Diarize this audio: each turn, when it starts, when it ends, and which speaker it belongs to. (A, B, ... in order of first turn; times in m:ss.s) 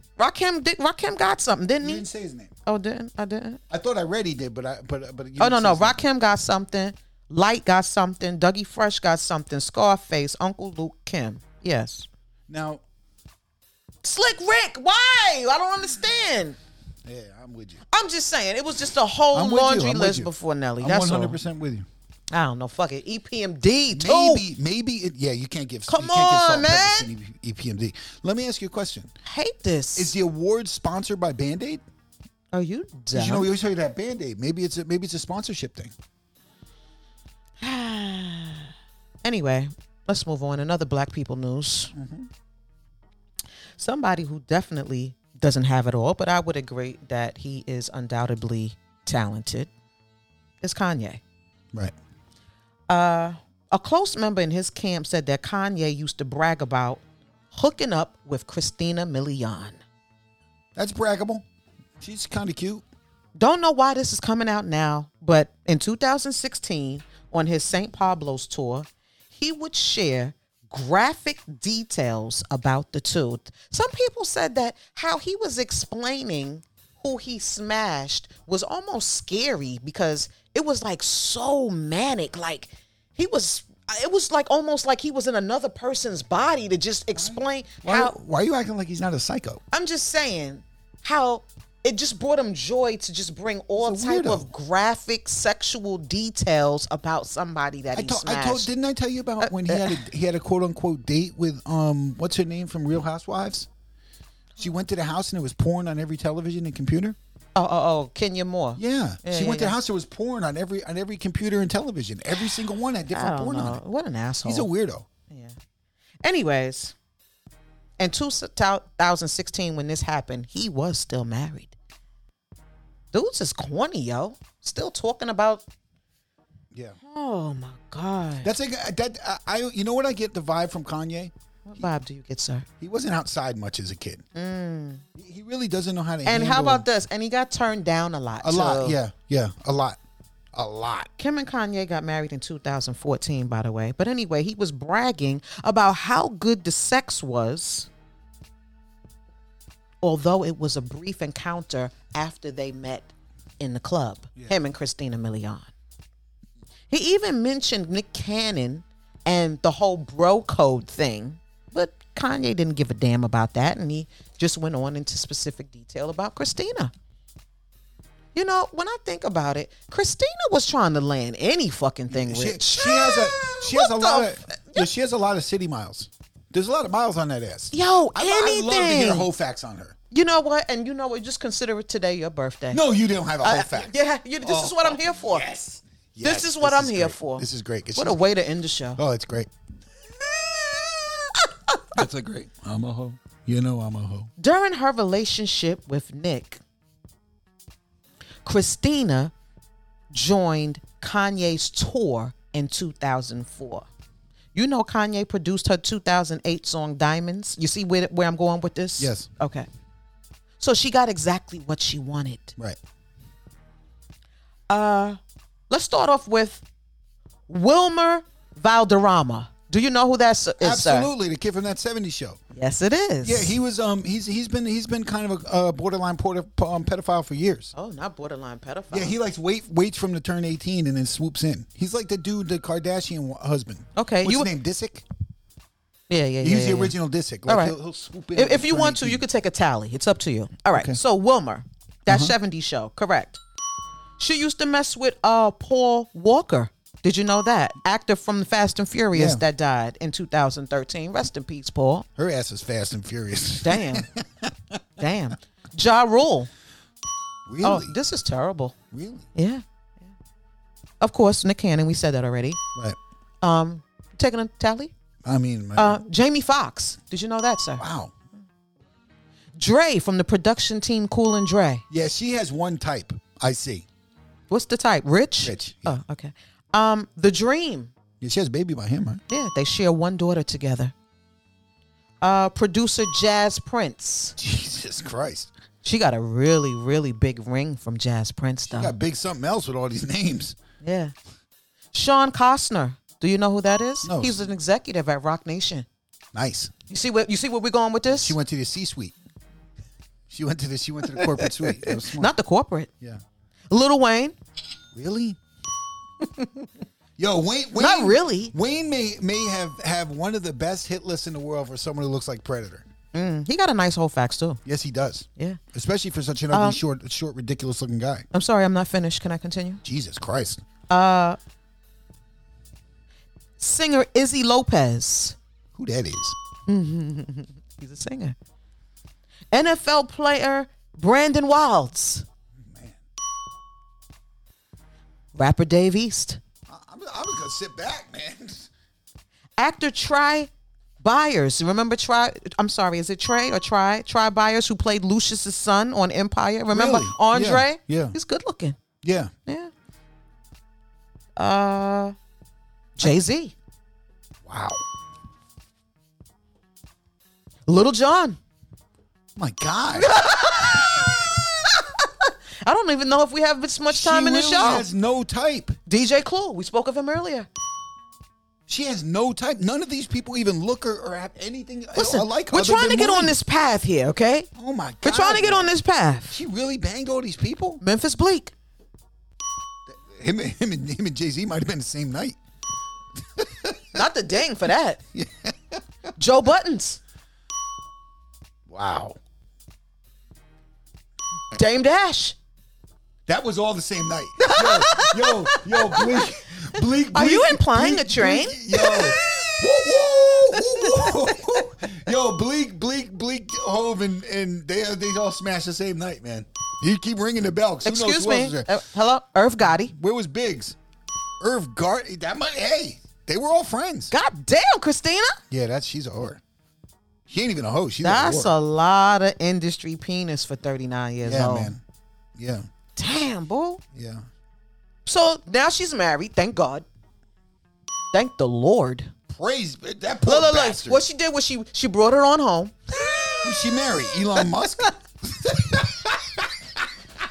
0:00.2-0:02.0 A
0:01.8-0:02.5 B
0:02.6-0:03.6 A
0:03.7-0:06.0 B
0:05.4-0:12.1 A
0:12.5-0:12.8 B
0:14.0-0:16.6 A
0:17.0-0:17.8 B
0:17.9-0:21.4 A
0:19.3-0:21.9 B
0:22.3-0:24.4 A
0:23.9-0:29.1 B
0:25.9-0:27.1 A
0:29.2-0:30.1 A
0:30.0-0:31.8 B
0:32.5-0:33.5 A
0:33.1-0:35.9 B
0:37.6-0:38.7 A
0:39.2-0:41.9 A
0:41.9-0:42.3 B
0:43.8-0:49.7 A
0:50.6-0:51.2 A
0:52.9-0:59.8 A
1:00.7-1:01.4 B
1:02.0-1:02.8 B
1:03.4-1:28.1 A
1:27.1-1:29.6 B
1:29.7-1:38.7 A
1:33.8-1:34.5 B
1:37.9-1:43.7 B
1:39.4-1:40.0 A
1:44.6-1:47.2 B
1:47.6-1:49.8 A
1:48.8-1:53.8 B
1:53.1-1:54.7 A
1:54.4-1:55.1 B
1:55.3-1:55.6 A
1:56.2-1:56.9 A
1:58.0-2:01.8 A
2:03.1-2:05.6 A
2:06.7-2:07.0 B
2:07.0-2:08.5 A
2:08.4-2:11.9 B
2:11.7-2:12.6 A
2:12.8-2:14.2 B
2:14.3-2:15.0 A
2:15.2-2:16.9 B
2:16.2-2:19.0 A
2:18.4-2:20.0 B
2:20.5-2:21.1 B
2:21.2-2:27.9 A
2:30.0-2:35.7 A
2:36.9-2:46.9 A
2:48.3-2:54.9 A
2:52.1-3:00.0 B
2:57.7-2:59.3 A
3:00.1-3:02.8 A
3:02.7-3:08.2 B
3:03.4-3:05.4 A
3:06.2-3:09.0 A
3:09.0-3:09.5 B
3:11.9-3:14.3 B
3:14.4-3:16.6 A
3:18.4-3:19.3 A
3:20.1-3:23.9 A
3:24.6-3:29.7 A
3:29.0-3:29.3 B
3:30.6-3:32.6 A
3:34.7-3:36.6 A
3:37.5-3:41.1 A
3:40.6-3:42.4 B
3:42.5-3:43.6 A
3:43.2-3:47.7 B
3:47.7-3:49.2 A
3:48.9-3:55.0 B
3:54.0-3:54.5 A
3:56.1-3:56.9 A
3:56.4-3:59.2 B
3:57.4-3:57.7 A
3:58.3-4:03.4 A
4:00.7-4:01.0 B
4:02.1-4:02.3 B
4:04.2-4:12.1 A
4:09.1-4:09.4 B
4:12.2-4:14.8 B
4:13.6-4:14.1 A
4:15.0-4:16.5 A
4:17.5-4:18.0 B
4:17.6-4:18.7 A
4:18.9-4:19.3 B
4:19.3-4:20.1 A
4:21.0-4:22.6 A
4:23.4-4:24.9 A
4:25.2-4:26.0 B
4:25.8-4:27.8 A
4:27.8-4:28.1 B
4:29.6-4:31.8 A
4:31.9-4:33.9 B
4:34.5-4:37.9 A
4:35.4-4:36.0 B
4:38.2-4:39.2 B
4:39.3-4:40.9 A
4:42.2-4:44.4 A
4:44.4-4:45.5 B
4:45.8-4:48.9 A
4:48.7-4:50.6 B
4:50.8-4:51.1 A
4:51.9-4:55.9 A
4:54.0-4:54.4 B
4:56.3-4:56.7 B
4:56.9-4:58.4 A
4:58.2-4:59.1 B
5:00.3-5:02.3 B
5:01.1-5:02.9 A
5:03.7-5:04.3 A
5:04.9-5:05.4 B
5:06.2-5:06.7 A
5:07.2-5:12.9 B
5:07.8-5:08.5 A
5:13.1-5:14.6 A
5:14.6-5:18.3 B
5:16.5-5:16.8 A
5:18.3-5:19.8 A
5:19.8-5:20.6 B
5:20.9-5:21.4 A
5:23.6-5:25.4 A
5:25.7-5:26.4 B
5:26.7-5:28.4 A
5:29.5-5:32.2 A
5:32.6-5:33.0 B
5:35.3-5:36.4 A
5:36.7-5:38.7 B
5:39.6-5:40.5 A
5:41.0-5:48.8 A
5:46.7-5:48.1 B
5:49.0-5:49.3 B
5:49.4-5:49.7 A
5:51.4-5:52.1 A
5:53.0-5:53.6 A
5:54.4-5:54.8 B
5:57.7-5:58.4 A
5:59.4-6:01.0 B
5:59.9-6:04.9 A
6:03.9-6:05.8 B
6:05.9-6:07.5 A
6:08.7-6:13.4 B
6:11.9-6:14.5 A
6:14.6-6:15.7 B
6:15.0-6:16.4 A
6:16.3-6:17.8 B
6:17.8-6:18.5 A
6:19.9-6:22.4 B
6:23.3-6:24.0 B
6:23.9-6:25.0 A
6:25.1-6:25.8 B
6:26.2-6:27.0 A
6:28.7-6:29.2 B
6:31.5-6:32.4 A
6:33.3-6:48.7 B
6:34.4-6:36.2 A
6:37.1-6:39.6 A
6:40.5-6:41.6 A
6:47.8-6:49.9 A
6:49.7-6:50.8 B
6:51.4-6:54.1 B
6:54.1-6:55.4 A
6:55.5-6:56.4 B
6:57.3-6:58.5 B
6:58.0-7:01.7 A
7:01.2-7:01.8 B
7:02.3-7:02.7 B
7:03.0-7:03.8 A
7:03.9-7:04.2 B
7:05.0-7:06.9 A
7:08.1-7:09.1 A
7:09.3-7:11.0 B
7:10.2-7:14.9 A
7:13.4-7:16.9 B